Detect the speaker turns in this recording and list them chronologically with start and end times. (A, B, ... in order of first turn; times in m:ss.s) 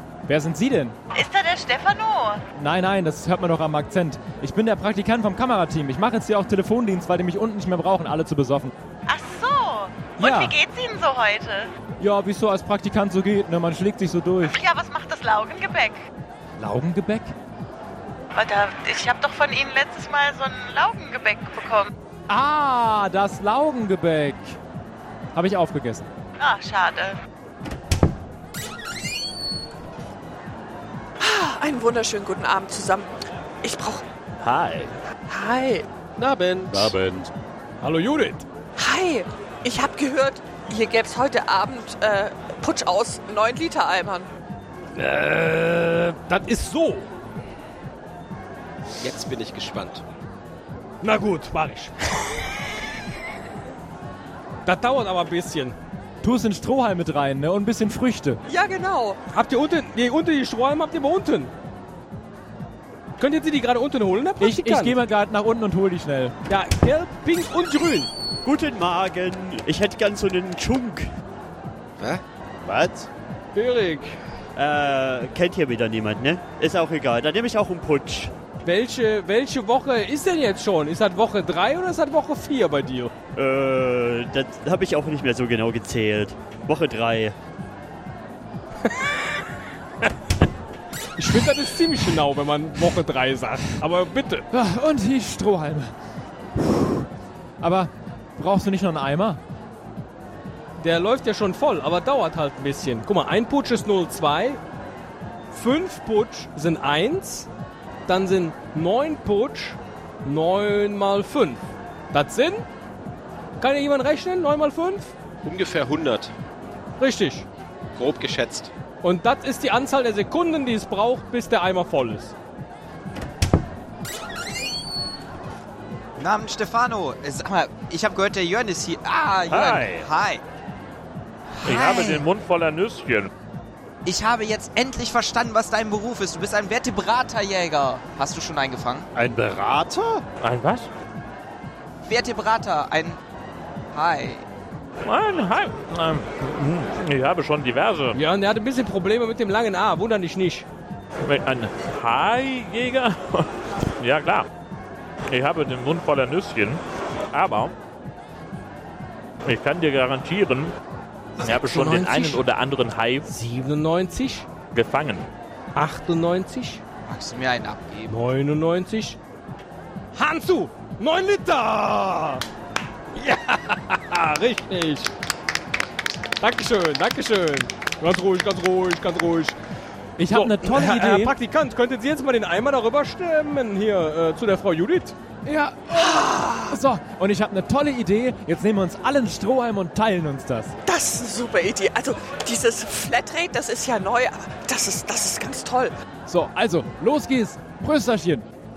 0:00.3-0:01.0 A
0:01.1-0:02.4 B
0:02.5-0:08.7 A
0:09.1-0:11.7 B
0:10.2-0:10.6 A
0:12.0-0:14.6 A
0:14.5-0:16.0 B
0:16.6-0:17.4 A
0:18.4-0:21.9 B
0:22.3-0:24.6 A
0:25.4-0:26.1 A
0:26.4-0:27.2 B
0:31.2-0:34.0 C
0:34.4-0:34.9 D
0:35.3-0:35.9 C
0:36.2-0:36.9 E
0:36.7-0:37.3 F
0:37.8-0:38.4 G
0:38.8-0:44.3 C
0:45.0-0:47.1 G
0:49.0-0:50.0 E
0:51.0-0:52.5 G
0:54.6-0:55.8 G
0:56.2-0:58.4 A
0:58.5-0:59.2 C
0:59.3-1:01.5 G
1:03.2-1:05.0 G
1:04.4-1:06.4 A
1:06.5-1:08.1 G
1:08.4-1:11.1 H
1:12.6-1:13.1 F
1:13.6-1:14.2 G
1:14.6-1:18.3 H
1:18.6-1:23.1 G
1:23.4-1:27.4 H
1:28.9-1:29.2 G
1:31.2-1:34.5 G
1:34.5-1:35.9 A
1:36.6-1:37.1 A
1:37.6-1:39.4 A
1:40.8-1:44.6 G
1:45.5-1:47.5 G
1:48.1-1:52.7 G
1:53.6-1:55.1 G
1:55.4-1:56.3 E
1:57.0-1:57.5 G
1:58.0-1:58.7 E
1:59.0-2:02.3 G
2:06.2-2:10.4 I
2:09.5-2:10.1 D
2:11.6-2:12.3 I
2:11.6-2:13.3 D
2:14.0-2:19.1 I
2:19.2-2:20.2 F
2:20.4-2:20.9 D
2:22.0-2:23.2 I
2:23.9-2:24.5 I
2:25.0-2:28.2 D
2:28.1-2:30.7 G
2:31.2-2:34.5 D
2:35.3-2:36.8 D
2:37.3-2:37.7 D
2:39.4-2:40.7 D
2:41.4-2:43.3 D
2:41.4-2:42.5 G
2:43.3-2:44.5 G
2:44.7-2:45.3 D
2:45.8-2:46.8 G
2:47.1-2:48.2 I
2:48.1-2:49.2 G
2:50.2-2:52.4 G
2:53.1-2:55.1 G
2:56.4-2:59.6 G
3:00.2-3:01.4 A
3:00.3-3:06.8 G
3:05.6-3:06.1 A
3:06.6-3:10.8 A
3:10.8-3:16.0 C
3:16.3-3:18.5 A